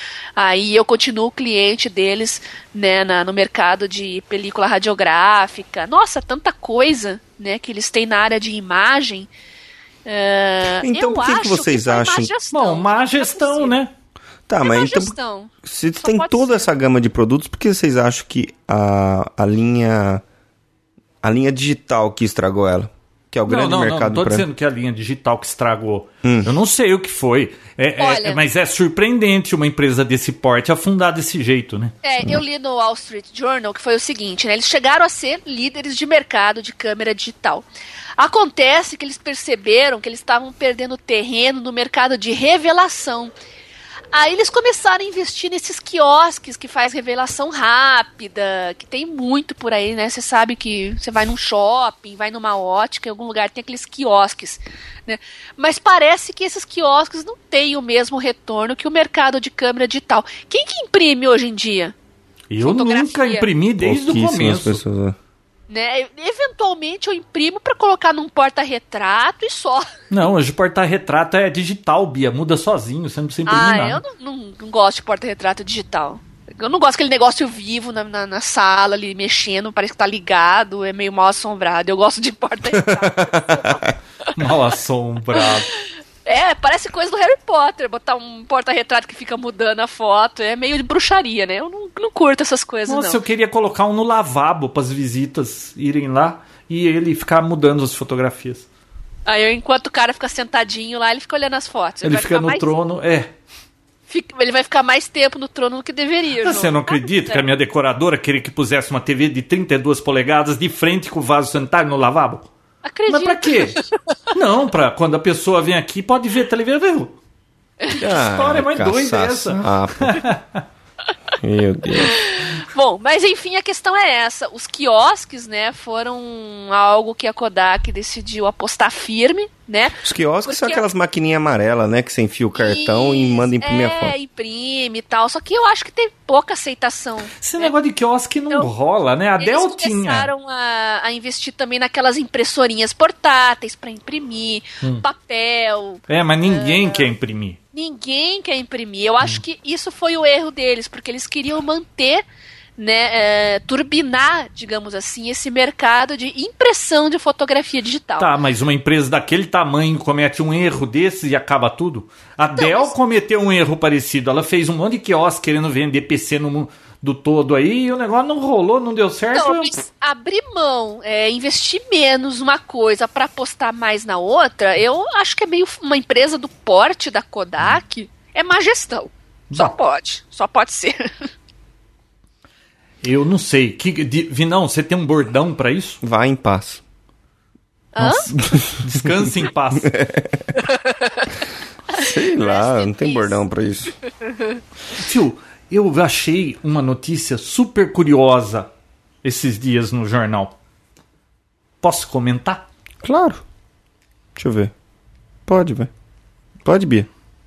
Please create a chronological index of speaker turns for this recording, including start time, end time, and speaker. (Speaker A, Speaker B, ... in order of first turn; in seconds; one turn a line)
Speaker A: 0.4-9.3
Speaker A: 10.1-13.7
Speaker B: 10.8-12.3
Speaker C: 12.5-13.9
Speaker B: 14.5-20.2
Speaker A: 14.6-16.7
Speaker B: 21.2-24.5
Speaker C: 23.5-31.9
Speaker B: 26.2-26.5
Speaker A: 28.0-28.4
Speaker A: 32.0-37.6
Speaker A: 38.2-43.3
Speaker A: 44.1-61.9
Speaker C: 62.5-64.8
Speaker A: 62.6-63.5
Speaker B: 63.8-65.2
Speaker A: 65.7-69.9
Speaker C: 70.1-74.0
Speaker A: 73.5-83.9
Speaker B: 82.7-83.9
Speaker C: 84.3-85.7
Speaker A: 86.2-93.2
Speaker C: 92.9-98.7
Speaker A: 99.2-102.7
Speaker C: 102.0-103.3
Speaker A: 104.1-107.4
Speaker C: 106.4-112.5
Speaker A: 112.8-114.1
Speaker C: 113.1-113.8
Speaker C: 114.3-117.2
Speaker C: 117.9-120.6
Speaker B: 118.0-120.2
Speaker B: 121.4-122.2
Speaker A: 121.9-130.8
Speaker B: 130.0-134.1
Speaker A: 132.5-137.7
Speaker C: 137.4-140.3
Speaker A: 139.4-147.1
Speaker C: 146.1-147.6
Speaker A: 147.7-152.2
Speaker A: 152.8-158.3
Speaker C: 158.2-169.7
Speaker A: 162.6-162.9
Speaker A: 169.3-181.1
Speaker C: 183.0-186.0
Speaker B: 186.0-186.8
Speaker A: 187.9-188.3
Speaker C: 188.0-189.9
Speaker B: 188.3-189.1
Speaker B: 189.8-190.5
Speaker A: 190.6-191.3
Speaker A: 191.9-193.3
Speaker B: 191.9-194.0
Speaker C: 194.9-198.7
Speaker C: 199.2-200.5
Speaker C: 201.8-202.7
Speaker B: 203.0-203.4
Speaker B: 204.3-204.7
Speaker B: 205.5-205.9
Speaker B: 206.6-207.1